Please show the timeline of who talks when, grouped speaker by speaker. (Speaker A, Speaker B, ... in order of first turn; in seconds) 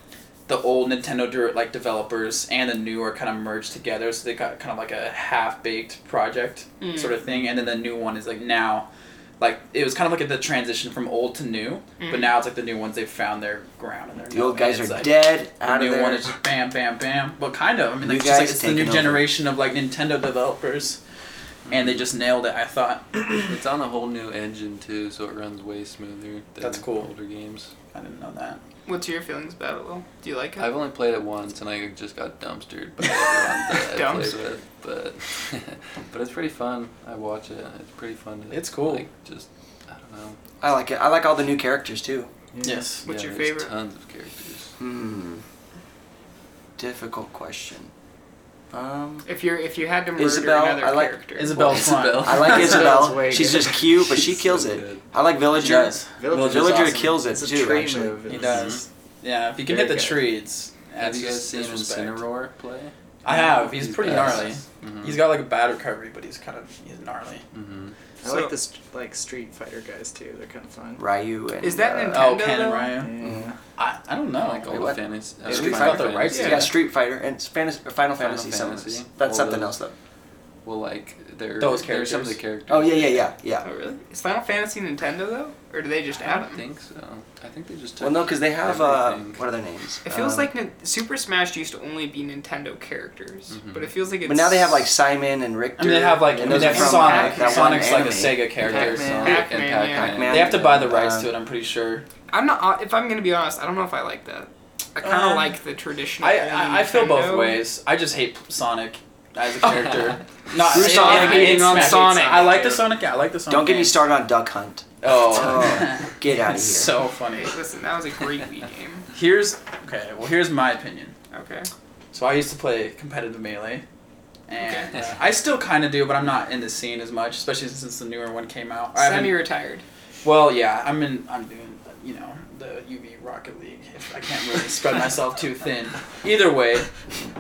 Speaker A: 0.5-21.0, 21.7-23.5, 26.6-27.1, 27.8-28.6, 38.5-39.0, 42.6-43.0, 51.4-53.2, 55.5-57.0, 58.3-62.3, 63.2-67.5, 72.1-73.1, 73.8-76.7, 81.6-82.4, 95.8-99.4, 100.2-102.1, 105.0-105.6, 106.2-114.0, 115.0-117.6, 119.1-121.2, 122.1-123.8, 124.5-129.4, 130.2-137.1
Speaker B: 6.8-7.1, 12.0-12.3, 28.9-30.7, 33.8-34.4, 43.0-43.7, 49.2-51.5, 68.2-68.5, 71.6-72.9, 76.2-76.7, 83.6-86.6, 90.0-94.9, 96.5-98.0, 99.2-100.3, 102.3-107.6, 109.6-110.0, 110.7-112.8, 117.3-119.1, 121.3-121.7, 124.6-124.9, 128.9-129.8
Speaker C: 14.3-16.3, 18.0-19.2, 40.6-42.3, 44.8-45.5, 46.8-47.9, 48.7-49.3, 50.2-58.2, 71.0-72.4, 73.2-73.5, 74.7-79.9, 82.7-83.7, 88.0-90.5, 94.2-98.5, 99.9-101.3, 110.5-112.0, 113.5-117.0
Speaker D: 21.7-22.0, 23.5-27.7, 30.6-40.4, 43.0-44.8, 51.8-52.3, 54.1-55.0, 58.3-58.9, 61.0-62.9, 63.7-65.2, 67.5-68.0, 74.3-76.7, 78.2-79.8, 80.6-83.3, 86.2-89.5, 93.5-93.9, 96.5-96.7, 98.6-100.9
Speaker E: 42.5-43.0, 52.2-54.2, 56.2-58.9, 59.7-60.2, 63.3-64.2, 68.2-71.0, 73.0-73.6, 98.6-99.5